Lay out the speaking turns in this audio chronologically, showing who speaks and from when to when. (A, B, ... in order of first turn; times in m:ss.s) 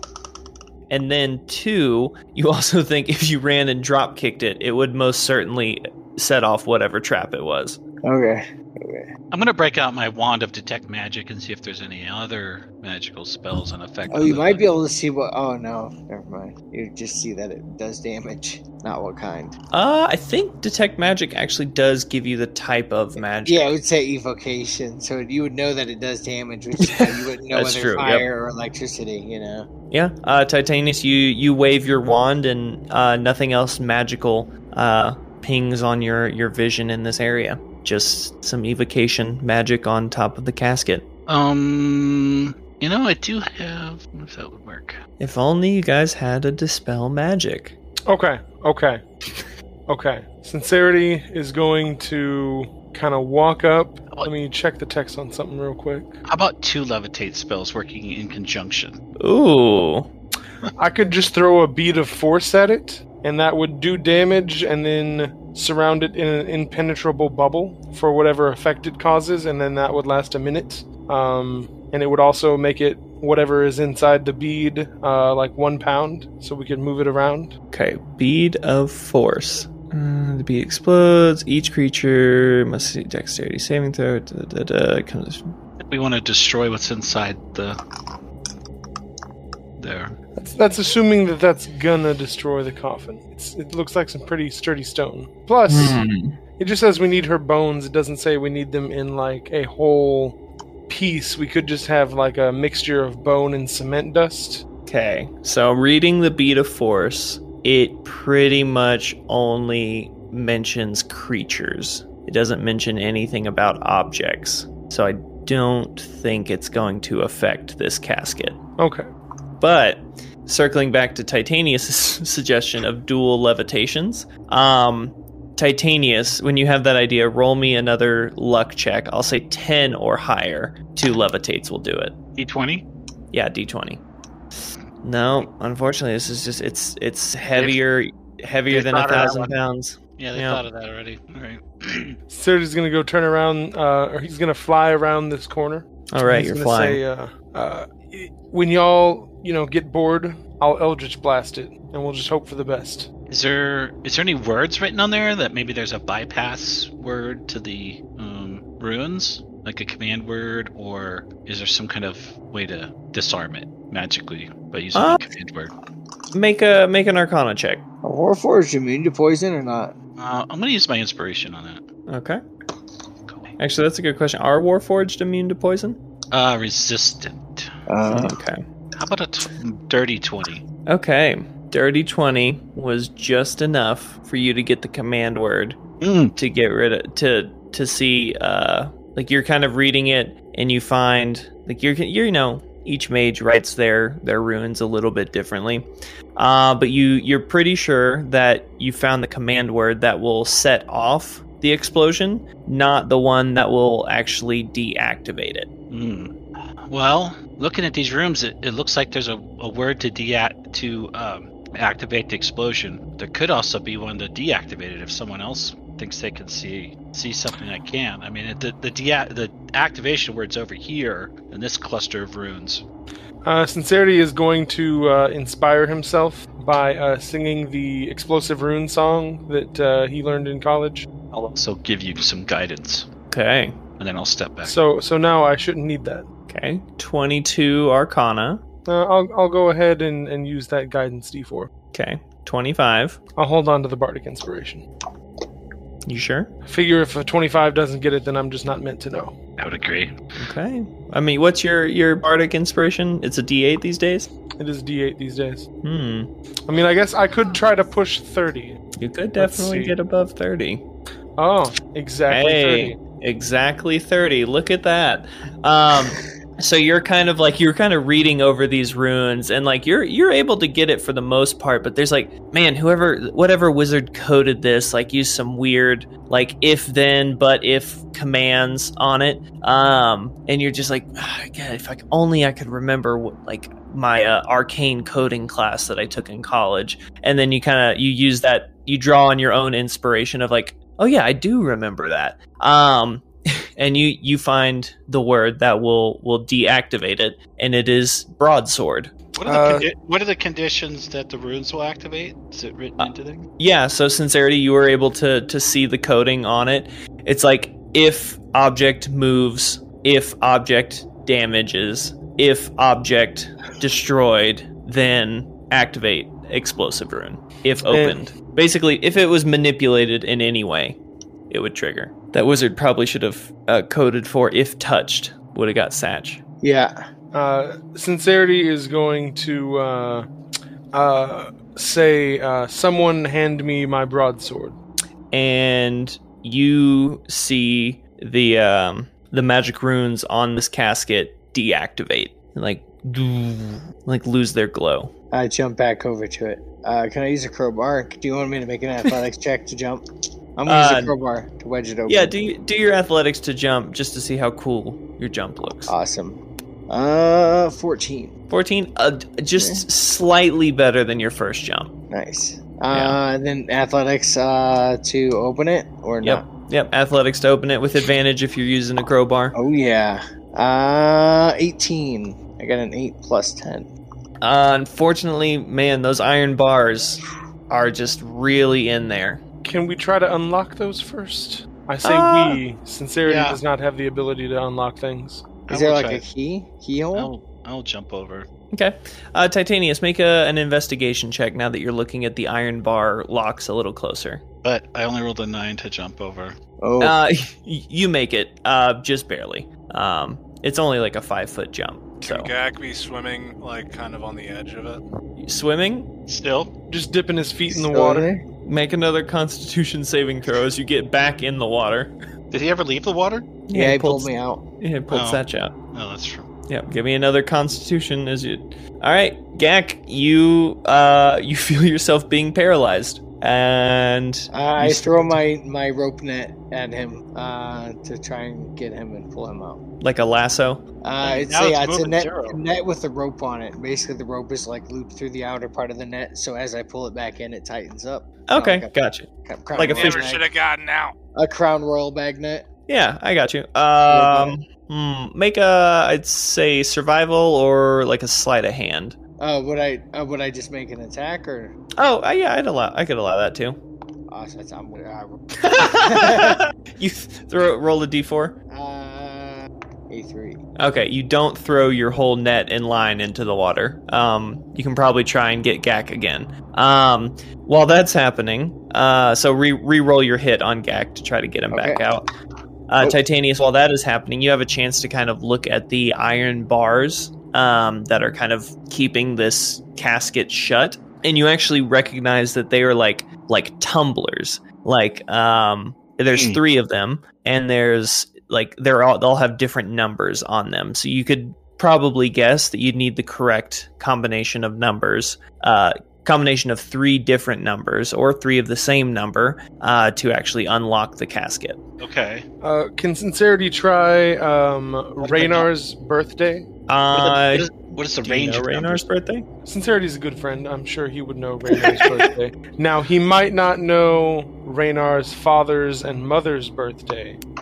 0:00.9-0:07.8 A
0:08.0-0:09.1 B
0:09.3-0:14.7 C
0:14.1-0:19.6 B
0:19.7-0:23.7 A
0:23.4-0:29.7 B
0:26.8-0:28.3 A
0:29.9-0:41.0 A
0:41.3-0:45.0 C
0:45.2-0:47.8 A
0:48.1-0:49.0 D
0:49.9-0:56.1 D
0:56.2-0:59.0 C
0:59.2-1:00.1 A
1:00.8-1:17.5 D
1:17.7-1:25.5 A
1:25.8-1:27.8 C
1:29.8-1:30.2 C
1:30.4-1:36.0 D
1:35.7-1:36.4 A
1:36.6-1:40.4 D
1:40.9-1:44.6 D
1:44.8-1:58.6 A
1:58.8-1:59.0 D
1:59.6-2:12.2 A
2:12.4-2:12.8 C
2:13.3-2:14.0 A
2:15.0-2:20.6 A
2:17.5-2:17.8 C
2:18.7-2:19.5 C
2:20.2-2:22.2 C
2:22.3-2:33.1 D
2:26.1-2:27.0 A
2:33.3-2:45.7 C
2:44.9-2:45.2 A
2:46.3-2:47.8 A
2:48.0-2:49.9 B
2:50.2-2:51.8 C
2:52.1-2:52.4 A
2:53.3-2:53.5 C
2:53.6-2:56.0 A
2:56.3-2:57.7 C
2:57.9-2:58.3 B
2:58.1-2:58.6 A
2:58.9-3:00.6 C
3:00.9-3:05.8 A
3:06.0-3:06.4 C
3:06.4-3:25.7 A
3:25.9-3:26.3 C
3:26.9-3:42.8 C
3:43.4-3:51.1 D
3:51.3-3:53.1 C
3:53.3-3:53.8 A
3:54.0-3:54.8 C
3:54.6-3:56.2 D
3:56.5-3:58.6 A
3:58.8-4:01.7 D
4:01.9-4:03.2 A
4:03.4-4:04.8 D
4:06.0-4:06.5 A
4:06.6-4:09.4 D
4:09.6-4:10.2 C
4:10.4-4:14.3 A
4:14.6-4:15.6 D
4:15.8-4:16.3 A
4:16.7-4:18.8 D
4:19.0-4:20.8 A
4:19.4-4:19.9 D
4:21.4-4:23.0 D
4:22.3-4:59.1 A
4:59.4-5:03.5 C
4:59.4-4:59.9 D
5:03.0-5:21.0 A
5:17.9-5:18.3 D
5:21.5-5:26.4 A
5:26.6-5:26.9 B
5:27.3-5:30.3 D
5:30.9-5:34.8 D
5:35.3-5:45.1 A
5:45.3-5:50.0 B
5:50.6-5:52.3 B
5:50.7-5:51.1 A
5:52.1-5:55.9 A
5:55.9-5:58.3 B
5:58.5-6:01.9 A
5:59.6-5:59.8 B
6:02.1-6:06.5 B
6:02.9-6:03.2 A
6:06.2-6:09.5 A
6:09.5-6:13.9 B
6:14.4-6:19.4 A
6:19.6-6:25.4 D
6:22.0-6:22.6 A
6:23.2-6:23.6 C
6:25.7-6:26.2 C
6:25.7-6:27.3 B
6:27.1-6:28.5 C
6:28.7-6:34.4 A
6:34.6-6:36.6 C
6:36.8-6:37.1 B
6:37.0-6:42.5 A
6:42.2-6:45.0 E
6:45.4-6:46.1 A
6:46.3-6:46.7 C
6:46.9-6:48.3 D
6:47.7-6:48.4 B
6:48.6-6:52.1 A
6:52.5-6:53.5 C
6:53.7-6:55.7 A
6:53.7-6:54.6 B
6:55.1-6:55.4 C
6:55.9-6:56.5 C
6:56.7-7:05.4 A
7:04.5-7:09.8 B
7:10.0-7:10.8 A
7:11.0-7:18.9 B
7:11.2-7:12.6 C
7:18.5-7:20.3 A
7:19.4-7:20.5 B
7:19.9-7:21.1 E
7:21.3-7:22.6 B
7:22.9-7:29.2 A
7:24.1-7:24.6 B
7:29.4-7:31.8 B
7:32.0-7:33.8 A
7:34.3-7:36.6 B
7:35.6-7:38.6 A
7:38.7-7:40.6 B
7:40.8-7:52.3 A
7:51.7-7:52.0 B
7:52.9-8:21.8 A
8:06.3-8:06.6 C
8:22.0-8:22.4 C
8:22.6-8:26.7 D
8:25.2-8:25.6 C
8:26.9-8:27.7 A
8:27.1-8:29.0 C
8:28.2-8:29.4 A
8:29.6-8:37.4 D
8:31.9-8:32.2 A